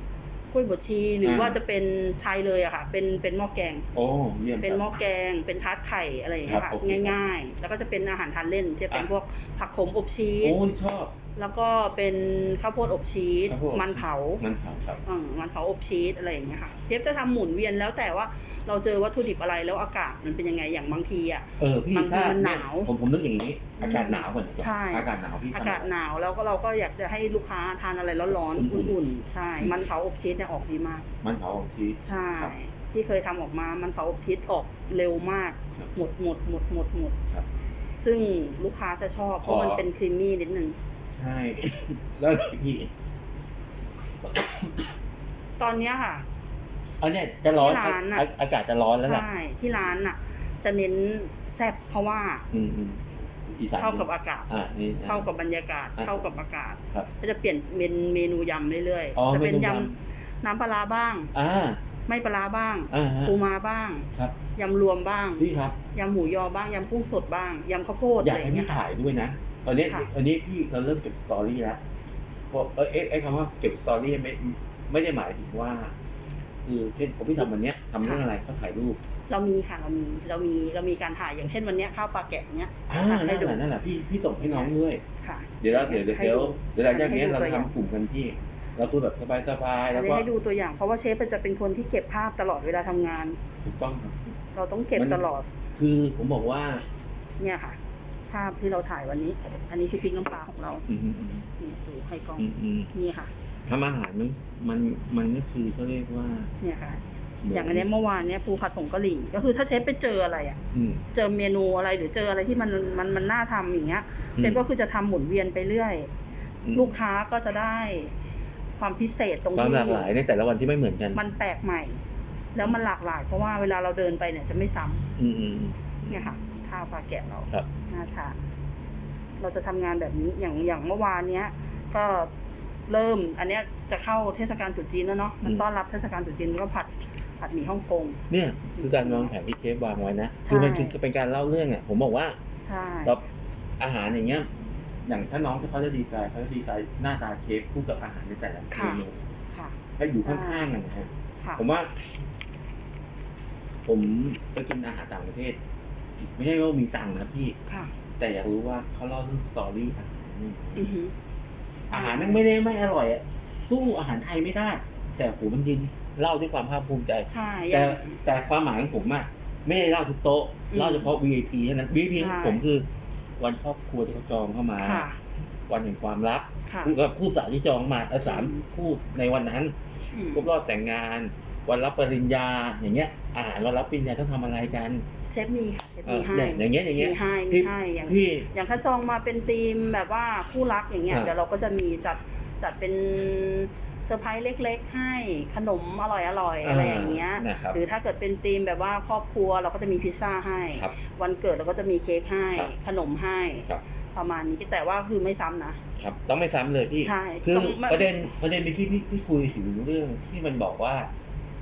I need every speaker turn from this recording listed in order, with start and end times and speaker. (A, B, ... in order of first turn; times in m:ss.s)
0:00.5-0:03.9 A
0:01.2-0:01.6 B
0:03.9-0:04.8 B
0:04.6-0:10.6 A
0:06.5-0:07.2 B
0:10.4-0:11.1 B
0:11.4-0:14.4 A
0:13.5-0:15.0 B
0:15.0-0:22.9 A
0:21.6-0:25.9 B
0:23.8-0:31.1 A
0:28.5-0:28.9 B
0:31.2-0:32.5 B
0:32.0-0:37.2 A
0:38.0-0:40.8 A
0:39.4-0:39.8 B
0:41.1-0:42.9 B
0:44.2-0:44.9 B
0:45.6-0:46.3 A
0:47.0-0:49.2 B
0:47.5-0:48.3 A
0:49.0-0:52.5 A
0:52.5-0:55.3 B
0:53.8-0:54.5 A
0:55.0-1:01.3 A
0:59.2-0:59.9 B
1:01.3-1:01.8 B
1:02.1-1:08.8 A
1:02.9-1:03.4 B
1:05.4-1:05.8 B
1:08.2-1:11.8 B
1:12.5-1:16.0 B
1:16.6-1:19.0 B
1:19.3-1:23.6 A
1:22.9-1:25.0 B
1:25.2-1:27.7 A
1:25.6-1:30.3 B
1:29.9-1:33.4 A
1:33.6-1:34.4 B
1:34.5-1:35.5 A
1:35.0-1:35.2 B
1:35.8-1:36.8 B
1:37.4-1:40.9 A
1:40.9-1:41.5 B
1:41.6-1:43.3 A
1:42.4-1:42.9 B
1:43.7-1:46.5 B
1:46.6-1:50.6 A
1:47.4-1:47.9 B
1:50.7-1:51.0 B
1:51.1-1:56.1 A
1:56.7-1:58.2 A
1:58.8-2:00.1 A
1:59.6-2:01.2 B
2:01.1-2:02.0 A
2:02.5-2:05.1 A
2:05.2-2:06.2 B
2:06.1-2:08.4 A
2:09.4-2:12.3 A
2:12.9-2:18.2 A
2:18.3-2:22.4 B
2:18.8-2:19.3 A
2:20.4-2:21.0 A
2:22.6-2:23.2 A
2:23.8-2:24.5 B
2:25.0-2:29.3 B
2:28.7-2:30.7 A
2:30.0-2:32.2 B
2:33.9-2:35.6 B
2:36.2-2:37.6 B
2:37.7-2:37.9 A
2:38.2-2:40.9 B
2:40.8-2:41.2 A
2:41.8-2:42.4 A
2:41.9-2:52.9 B
2:47.3-2:48.2 A
2:50.7-2:51.1 A
2:52.2-2:52.6 A
2:53.4-2:55.1 B
2:54.8-2:55.2 A
2:55.7-2:59.8 B
2:56.7-2:57.0 A
2:58.2-2:58.6 A
3:00.1-3:00.4 A
3:00.3-3:05.0 B
3:05.3-3:25.8 A
3:06.1-3:08.5 B
3:16.6-3:17.8 B
3:26.0-3:31.1 B
3:27.0-3:28.2 A